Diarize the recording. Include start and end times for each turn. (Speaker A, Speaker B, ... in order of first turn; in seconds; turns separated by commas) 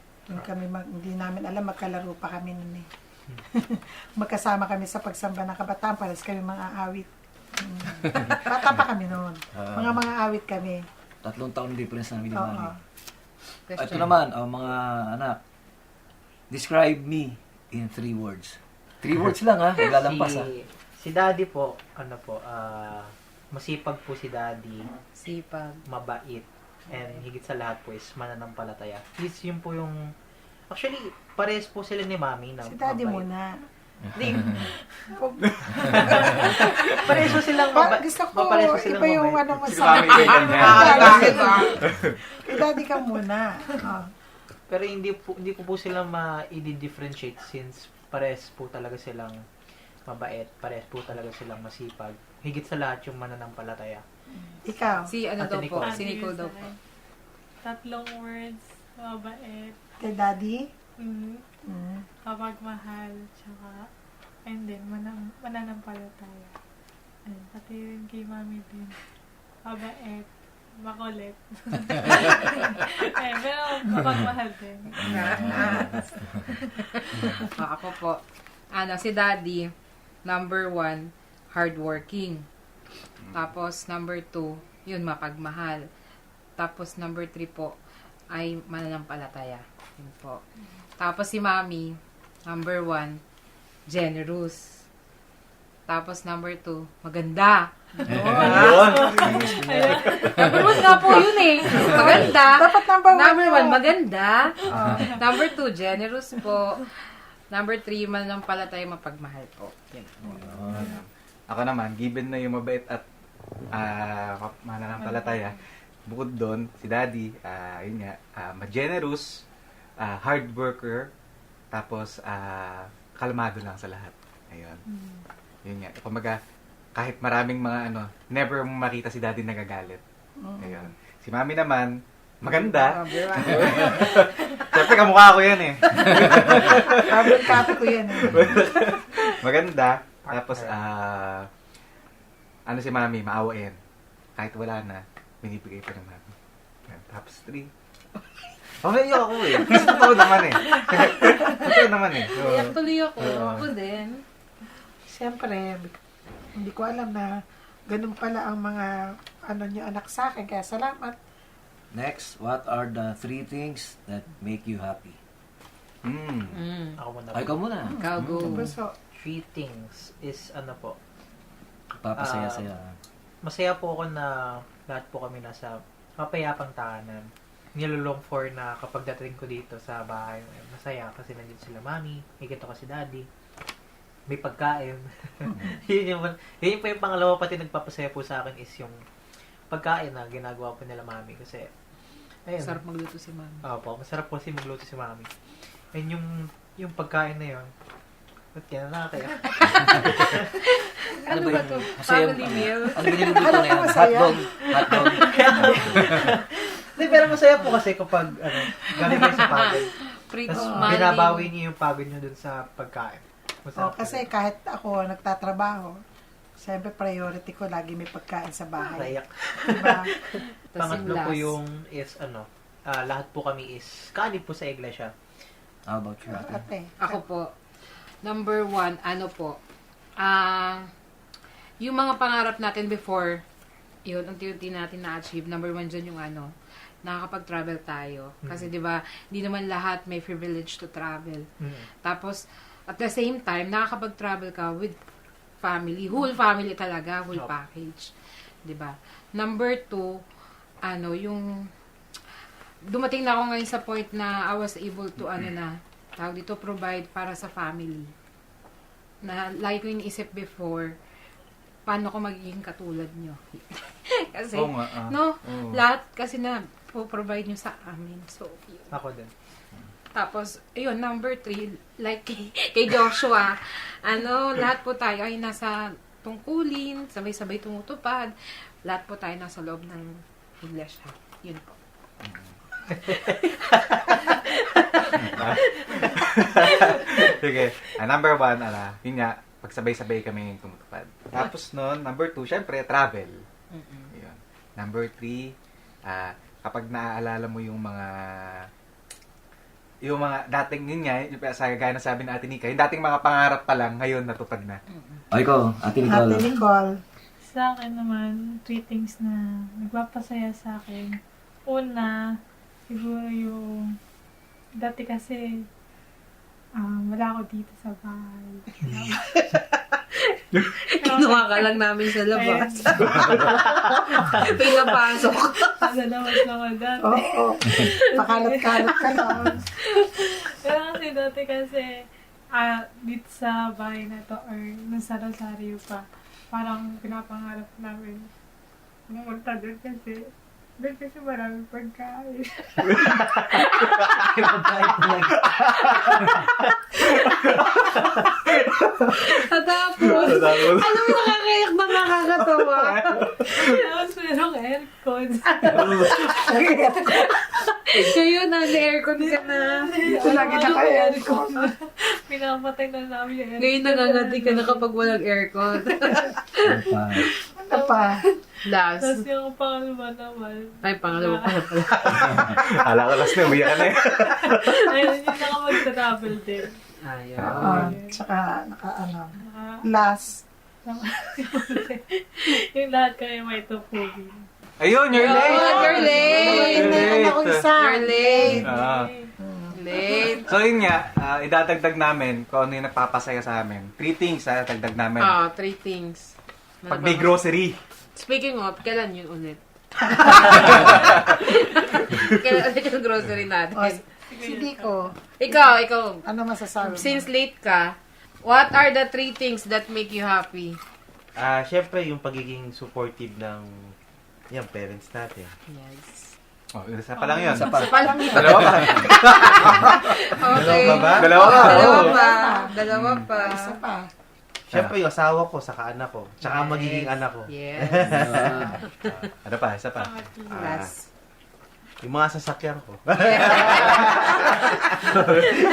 Speaker A: 0.3-2.9, Speaker A: 3.5-10.8, Speaker B: 9.6-10.0, Speaker B: 11.2-12.7, Speaker A: 12.3-12.8, Speaker C: 13.7-14.1, Speaker B: 13.8-15.4, Speaker B: 16.5-20.5, Speaker D: 19.9-24.9, Speaker C: 25.2-25.8, Speaker D: 25.9-30.0, Speaker D: 30.7-33.2, Speaker A: 32.6-33.5, Speaker D: 34.2-35.2, Speaker A: 34.5-37.0, Speaker D: 35.9-39.8, Speaker E: 36.9-37.1, Speaker A: 37.6-44.1, Speaker E: 39.7-42.2, Speaker C: 40.0-41.7, Speaker D: 44.7-49.4, Speaker D: 50.1-54.0, Speaker A: 54.3-55.1, Speaker C: 55.1-56.7, Speaker D: 55.4-56.0, Speaker F: 55.8-56.8, Speaker F: 57.6-59.8, Speaker A: 60.0-60.6, Speaker F: 61.0-61.4, Speaker A: 61.6-62.1, Speaker F: 62.3-63.9, Speaker F: 64.5-66.5, Speaker F: 67.3-69.0, Speaker F: 69.7-75.8, Speaker B: 75.0-76.3, Speaker C: 75.0-75.8, Speaker A: 75.5-76.2, Speaker C: 77.6-78.2, Speaker C: 78.7-79.7, Speaker C: 80.3-82.5, Speaker C: 83.3-85.8, Speaker C: 86.6-87.7, Speaker C: 88.3-90.4, Speaker C: 91.0-93.2, Speaker C: 93.9-94.8, Speaker C: 95.9-97.7, Speaker A: 98.1-99.4, Speaker B: 98.1-98.6, Speaker C: 98.3-99.0, Speaker E: 98.3-100.5, Speaker F: 98.5-100.9, Speaker C: 100.2-110.3, Speaker A: 101.7-103.8, Speaker A: 104.7-105.1, Speaker E: 110.3-113.0, Speaker B: 110.4-110.9, Speaker E: 113.7-119.4, Speaker F: 115.0-115.6, Speaker E: 120.0-121.1, Speaker E: 121.7-124.8, Speaker F: 124.9-125.2, Speaker E: 125.7-126.4, Speaker E: 127.0-130.0, Speaker A: 130.4-130.9, Speaker E: 130.6-141.5, Speaker C: 132.5-134.1, Speaker A: 136.9-138.5, Speaker D: 140.3-140.9, Speaker E: 142.7-143.8, Speaker E: 144.4-146.3, Speaker E: 146.9-147.7, Speaker E: 148.8-153.7, Speaker C: 149.7-150.0, Speaker C: 152.3-154.2, Speaker A: 155.1-155.9, Speaker A: 156.6-157.3, Speaker A: 157.9-159.0, Speaker A: 159.5-161.2, Speaker B: 161.9-165.2, Speaker E: 166.0-166.6, Speaker C: 166.5-166.9, Speaker D: 167.0-167.6, Speaker B: 167.3-168.0, Speaker A: 167.8-168.9, Speaker C: 168.0-168.7, Speaker E: 168.2-168.5, Speaker D: 169.2-171.0, Speaker B: 171.9-173.0, Speaker D: 172.2-172.7, Speaker D: 173.4-177.2, Speaker D: 177.8-183.3, Speaker D: 184.3-189.0, Speaker D: 189.7-191.7, Speaker D: 192.5-192.8, Speaker C: 192.6-193.6, Speaker D: 193.7-197.7, Speaker D: 198.6-200.5, Speaker C: 199.6-203.5, Speaker B: 201.3-206.0, Speaker A: 203.3-205.0, Speaker D: 204.8-210.0, Speaker C: 209.1-209.7, Speaker C: 210.3-211.5, Speaker D: 210.5-214.2, Speaker A: 210.5-211.1, Speaker A: 213.8-215.9, Speaker A: 216.6-219.2, Speaker D: 218.8-225.2, Speaker A: 219.7-220.1, Speaker C: 220.7-221.5, Speaker B: 225.9-226.6, Speaker A: 226.3-227.2, Speaker C: 227.0-227.5, Speaker C: 228.2-229.6, Speaker C: 230.2-230.9, Speaker C: 231.8-233.4, Speaker C: 234.1-236.5, Speaker C: 237.0-241.4, Speaker D: 238.4-238.7, Speaker D: 241.6-241.9, Speaker C: 242.0-245.0, Speaker C: 245.6-248.1, Speaker C: 248.6-250.2, Speaker C: 250.9-251.5, Speaker C: 252.9-258.1, Speaker C: 259.2-261.0, Speaker C: 261.9-268.9, Speaker E: 264.5-265.8, Speaker D: 268.9-269.3, Speaker C: 270.1-281.8, Speaker E: 282.2-282.5, Speaker D: 282.9-284.1, Speaker C: 282.9-286.1, Speaker E: 285.3-293.4, Speaker C: 286.7-287.2, Speaker C: 293.7-294.1, Speaker E: 294.1-295.6, Speaker E: 296.1-298.7, Speaker E: 300.0-304.8, Speaker C: 304.9-305.2, Speaker B: 305.3-306.5, Speaker A: 306.1-307.0, Speaker F: 307.4-312.3, Speaker F: 312.9-313.9, Speaker F: 314.8-315.5, Speaker F: 316.8-319.2, Speaker C: 320.2-323.7, Speaker F: 321.0-323.3, Speaker D: 323.1-324.5, Speaker C: 324.3-325.8, Speaker F: 325.8-332.0, Speaker A: 327.0-329.7, Speaker F: 332.6-338.3, Speaker F: 339.1-343.2, Speaker D: 343.2-346.7, Speaker C: 343.6-343.8, Speaker E: 343.9-344.7, Speaker E: 345.3-349.1, Speaker C: 345.9-346.2, Speaker D: 347.8-348.3, Speaker C: 349.2-353.4, Speaker E: 350.1-351.2, Speaker E: 352.4-353.7, Speaker F: 353.4-356.1, Speaker E: 355.7-356.2, Speaker C: 356.2-356.5, Speaker A: 356.4-357.4, Speaker C: 357.3-359.9, Speaker F: 359.2-365.1, Speaker A: 360.0-361.7, Speaker C: 363.6-366.6, Speaker B: 366.7-367.3, Speaker A: 367.6-368.2, Speaker F: 367.7-368.2, Speaker C: 368.6-369.2, Speaker F: 369.0-371.8, Speaker C: 370.8-372.6, Speaker E: 372.1-374.9, Speaker F: 374.7-376.8, Speaker C: 377.0-377.9, Speaker F: 377.5-378.1, Speaker A: 377.5-380.4, Speaker F: 379.4-379.8, Speaker F: 380.9-384.5, Speaker E: 384.8-387.7, Speaker C: 385.1-387.1, Speaker F: 385.4-386.3, Speaker A: 386.2-388.7, Speaker C: 387.8-388.6, Speaker E: 388.5-389.1, Speaker F: 388.6-389.3, Speaker A: 389.4-389.9, Speaker C: 389.7-390.5, Speaker E: 390.4-395.4, Speaker C: 395.2-397.4, Speaker E: 396.9-397.8, Speaker C: 398.2-404.0, Speaker E: 400.8-401.2, Speaker A: 403.7-405.2, Speaker F: 404.3-404.9, Speaker C: 405.4-406.2, Speaker A: 406.2-407.3, Speaker C: 406.8-410.8, Speaker G: 411.4-413.9, Speaker G: 414.5-415.5, Speaker C: 415.7-416.4, Speaker E: 416.7-422.2, Speaker F: 417.2-417.7, Speaker C: 417.5-423.8, Speaker B: 417.5-418.6, Speaker A: 418.1-418.4, Speaker G: 420.5-421.9, Speaker A: 421.3-422.8, Speaker E: 422.9-423.3, Speaker A: 423.3-424.1, Speaker E: 424.7-425.0, Speaker G: 424.7-428.8, Speaker D: 426.4-427.1, Speaker C: 426.5-429.3, Speaker B: 428.2-428.8, Speaker E: 429.1-430.7, Speaker F: 430.0-430.8, Speaker C: 430.5-431.1, Speaker G: 430.6-430.9, Speaker G: 432.0-435.2, Speaker C: 433.1-435.0